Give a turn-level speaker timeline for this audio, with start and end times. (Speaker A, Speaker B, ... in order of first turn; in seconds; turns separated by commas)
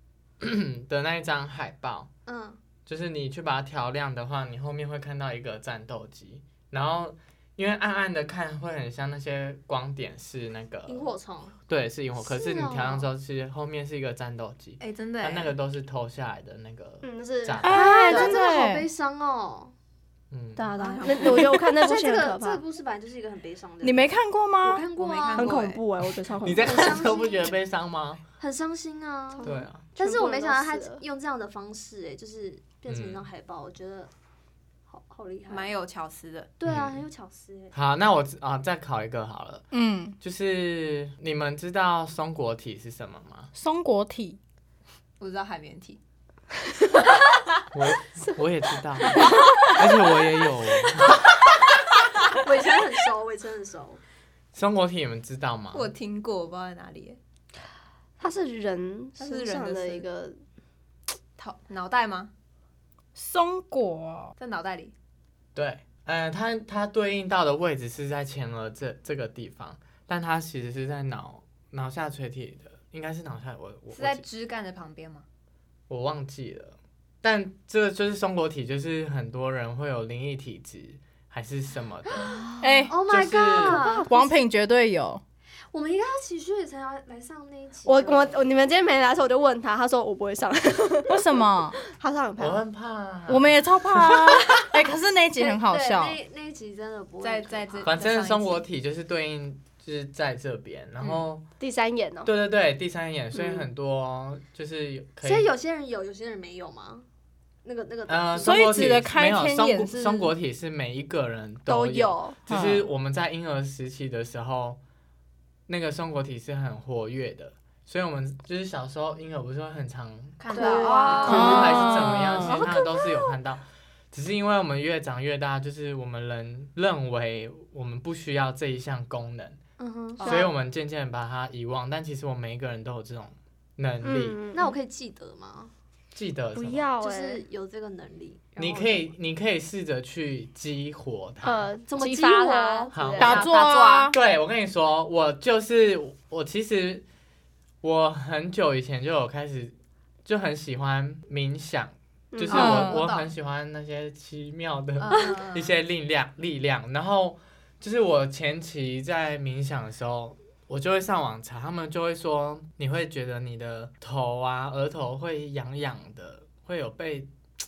Speaker A: 0.4-2.1, Speaker B: 2.2-2.6, Speaker A: 2.9-11.1, Speaker B: 10.9-11.6, Speaker A: 11.7-18.0, Speaker B: 12.2-13.1, Speaker C: 14.8-15.5, Speaker D: 17.0-18.4, Speaker E: 17.6-18.9, Speaker B: 17.6-19.7, Speaker A: 20.3-20.7, Speaker D: 20.6-22.6, Speaker C: 20.8-21.5, Speaker B: 20.9-25.6, Speaker E: 23.8-24.9, Speaker C: 24.9-25.8, Speaker D: 25.4-27.1, Speaker A: 26.4-28.2, Speaker B: 26.6-27.5, Speaker B: 28.4-34.1, Speaker D: 29.3-31.0, Speaker A: 29.4-29.8, Speaker A: 32.9-33.2, Speaker B: 34.9-35.7, Speaker C: 35.5-36.5, Speaker B: 36.6-37.7, Speaker A: 36.6-37.0, Speaker A: 37.7-39.6, Speaker E: 39.7-40.1, Speaker A: 40.2-43.5, Speaker E: 43.5-44.4, Speaker C: 45.2-46.0, Speaker A: 47.7-51.2, Speaker B: 52.3-54.0, Speaker A: 54.5-55.9, Speaker C: 55.7-57.2, Speaker D: 58.2-60.4, Speaker C: 59.2-60.0, Speaker C: 61.4-62.3, Speaker E: 63.1-64.3, Speaker C: 64.4-64.9, Speaker A: 65.5-74.2, Speaker C: 73.9-75.2, Speaker A: 75.9-82.4, Speaker B: 82.0-84.2, Speaker E: 82.6-82.9, Speaker A: 83.0-83.8, Speaker D: 83.6-84.3, Speaker E: 84.1-85.2, Speaker B: 85.7-88.5, Speaker D: 87.8-91.2, Speaker E: 91.1-91.8, Speaker D: 91.9-92.6, Speaker A: 92.4-94.2, Speaker E: 93.3-96.2, Speaker B: 95.4-98.0, Speaker C: 97.2-98.6, Speaker A: 97.8-101.4, Speaker D: 101.6-102.3, Speaker A: 102.2-105.5, Speaker B: 105.2-107.0, Speaker B: 107.6-108.8, Speaker A: 108.1-114.8, Speaker E: 108.4-110.3, Speaker D: 111.7-112.3, Speaker E: 112.5-112.8, Speaker A: 115.7-120.4, Speaker C: 120.4-122.0, Speaker B: 120.5-123.2, Speaker D: 120.5-121.3, Speaker A: 121.1-129.6, Speaker E: 121.2-122.7, Speaker B: 129.8-130.4, Speaker C: 130.2-130.5, Speaker A: 130.2-134.4, Speaker D: 130.2-130.5, Speaker D: 134.0-134.8, Speaker B: 134.5-135.7, Speaker A: 136.1-136.9, Speaker D: 136.5-137.4, Speaker B: 137.0-139.1, Speaker A: 138.6-141.6, Speaker D: 141.4-142.7, Speaker B: 141.9-143.4, Speaker C: 142.0-144.1, Speaker A: 142.9-143.4, Speaker E: 143.2-144.2, Speaker A: 144.1-147.0, Speaker A: 147.8-149.7, Speaker A: 150.2-167.3, Speaker D: 152.3-152.8, Speaker E: 152.5-153.1, Speaker C: 152.5-153.3, Speaker C: 155.0-155.8